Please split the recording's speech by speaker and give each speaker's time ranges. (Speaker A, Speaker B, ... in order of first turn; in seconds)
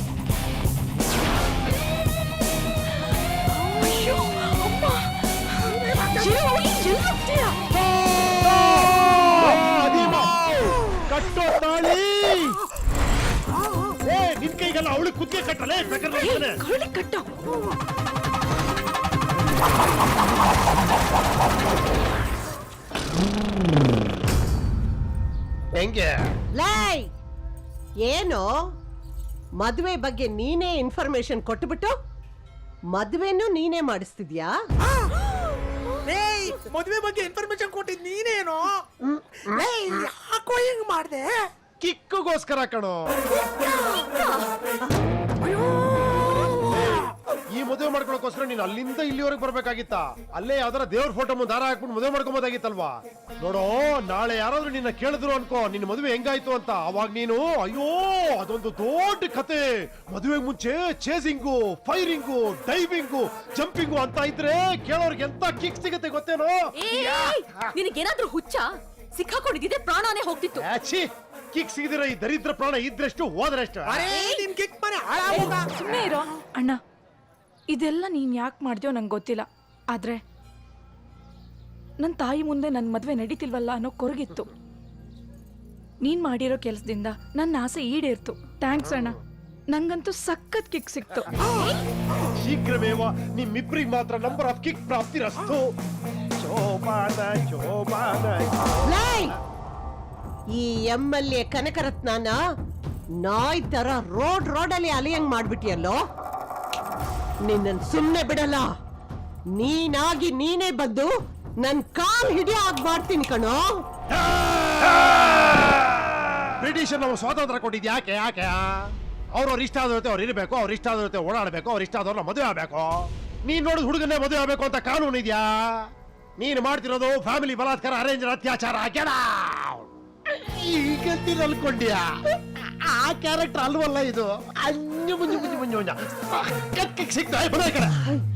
Speaker A: 3.8-7.6, 16.2-17.2, 75.3-76.8, 77.7-80.2, 82.0-84.5, 86.0-89.2, 89.7-91.3
Speaker B: 7.7-12.6, 14.0-16.6, 25.8-26.2, 41.8-43.2, 46.7-67.7, 70.6-74.1, 92.4-95.7, 96.4-98.9, 114.8-138.2
Speaker C: 26.5-27.1, 28.0-28.5, 29.6-31.9, 32.9-34.5, 98.9-99.4, 100.5-102.4, 103.2-106.0, 107.4-108.7, 109.5-113.8
Speaker D: 36.0-38.8, 39.4-41.5, 73.9-75.8
Speaker E: 43.6-44.4, 45.6-46.3, 66.8-70.7, 74.1-74.5, 75.3-76.1